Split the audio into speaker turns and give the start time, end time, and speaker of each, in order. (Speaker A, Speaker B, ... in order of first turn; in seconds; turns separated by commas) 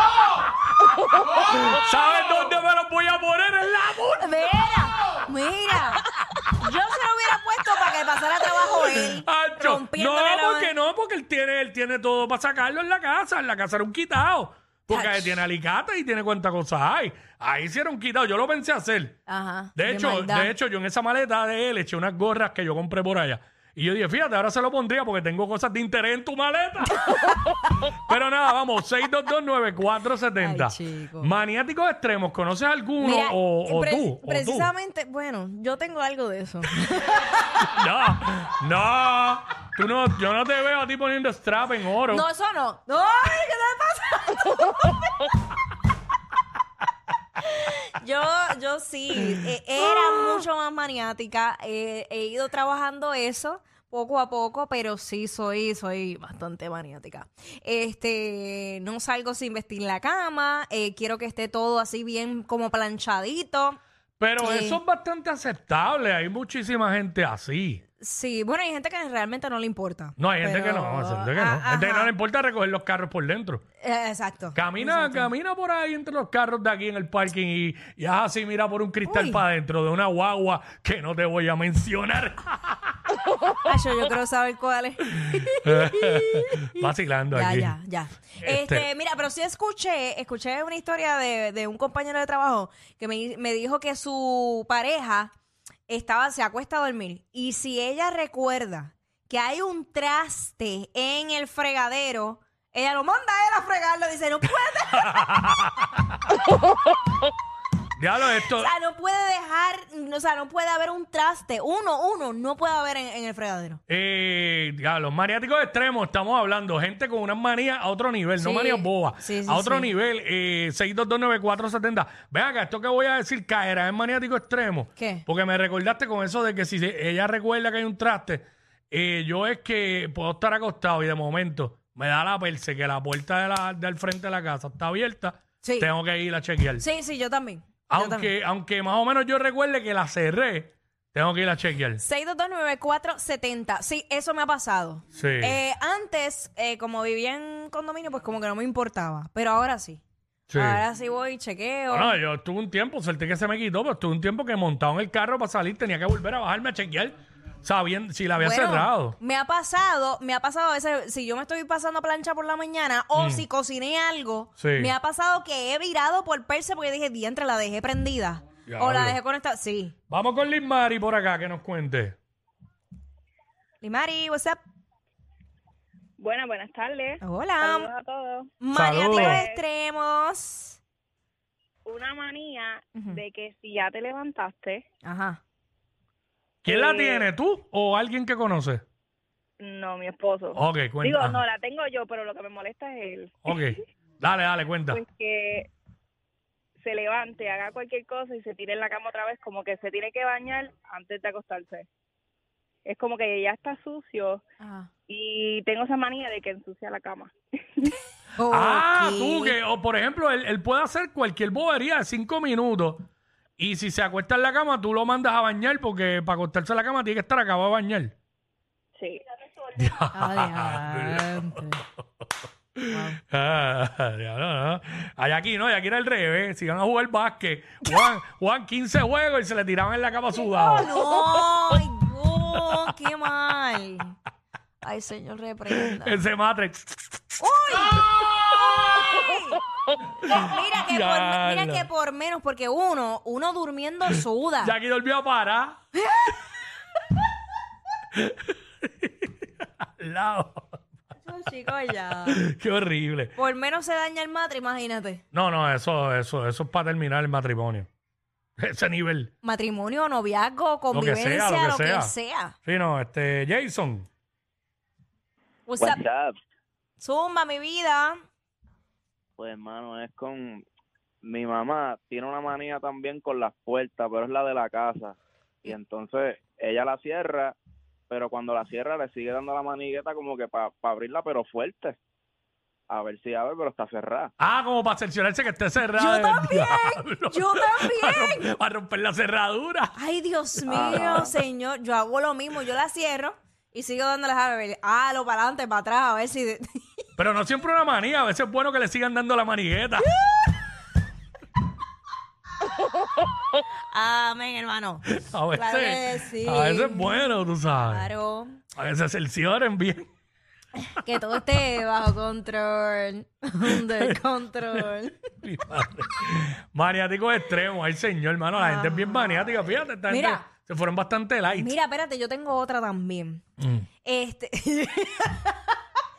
Speaker A: 1.5-4.7, Speaker B: 4.2-10.7, Speaker A: 8.8-19.2, Speaker B: 14.9-15.4, Speaker B: 19.3-20.5, Speaker A: 19.8-27.1, Speaker B: 27.0-27.4, Speaker A: 27.8-34.7, Speaker B: 30.4-31.3, Speaker B: 33.0-37.7, Speaker A: 37.6-42.2, Speaker B: 42.1-45.3, Speaker B: 47.5-63.8, Speaker A: 64.2-67.8, Speaker B: 64.4-64.8, Speaker B: 68.0-72.1, Speaker A: 70.2-73.6, Speaker B: 73.8-75.3, Speaker A: 74.5-83.0, Speaker B: 79.1-79.4, Speaker B: 83.6-95.3, Speaker A: 85.6-87.8, Speaker A: 88.4-88.9, Speaker B: 95.9-105.2, Speaker A: 105.0-105.8, Speaker A: 108.0-108.7, Speaker B: 108.5-113.8, Speaker A: 113.9-136.8, Speaker B: 118.4-119.9, Speaker B: 125.0-125.2, Speaker B: 135.6-135.9, Speaker B: 136.8-138.3, Speaker A: 137.9-142.0, Speaker B: 142.0-150.0, Speaker A: 145.2-145.6, Speaker A: 150.5-150.8, Speaker B: 150.5-152.1, Speaker A: 151.9-159.2, Speaker B: 158.4-169.9, Speaker A: 163.2-163.4, Speaker A: 164.6-164.9, Speaker A: 168.7-169.2, Speaker A: 170.1-172.2, Speaker B: 173.8-174.6, Speaker C: 176.2-178.5, Speaker B: 177.2-177.9, Speaker B: 178.6-180.8, Speaker A: 178.7-179.4, Speaker C: 179.1-179.6, Speaker C: 181.8-184.8, Speaker B: 185.0-185.4, Speaker A: 186.7-188.8, Speaker C: 186.7-187.2, Speaker C: 189.6-193.6, Speaker A: 190.5-191.4, Speaker A: 193.4-195.0, Speaker C: 194.9-195.7, Speaker C: 196.8-201.9, Speaker C: 202.8-204.4, Speaker B: 204.6-204.9, Speaker C: 205.1-207.9, Speaker B: 208.4-209.6, Speaker A: 208.5-213.1, Speaker A: 213.6-218.2, Speaker A: 219.8-221.6, Speaker B: 220.1-221.8, Speaker A: 222.8-230.9, Speaker B: 222.9-223.2, Speaker B: 230.4-234.2, Speaker B: 234.8-236.2, Speaker A: 235.7-237.2, Speaker B: 237.4-239.6, Speaker B: 240.2-244.7, Speaker A: 240.3-241.9, Speaker A: 244.6-245.8, Speaker B: 246.0-246.4, Speaker A: 248.1-250.8, Speaker B: 251.2-252.4, Speaker A: 252.2-253.3, Speaker B: 253.4-255.2, Speaker A: 255.3-257.9, Speaker A: 258.6-259.3, Speaker B: 259.4-262.6, Speaker A: 260.9-264.1, Speaker B: 265.7-266.0, Speaker D: 265.8-266.3, Speaker B: 267.0-268.2, Speaker D: 269.4-270.6, Speaker D: 271.2-277.6, Speaker D: 278.1-282.0, Speaker D: 282.9-284.3, Speaker A: 284.4-290.0, Speaker B: 285.9-288.5, Speaker B: 290.0-296.8, Speaker A: 290.7-291.3, Speaker D: 290.7-291.3, Speaker A: 297.2-300.1, Speaker B: 300.1-300.5, Speaker B: 303.9-308.6, Speaker A: 305.1-308.1, Speaker A: 308.8-310.1, Speaker B: 310.9-315.2, Speaker A: 313.7-314.2, Speaker A: 315.4-321.7, Speaker B: 318.6-319.5, Speaker B: 320.1-320.5, Speaker B: 321.5-323.4, Speaker A: 323.6-323.9, Speaker B: 324.1-325.8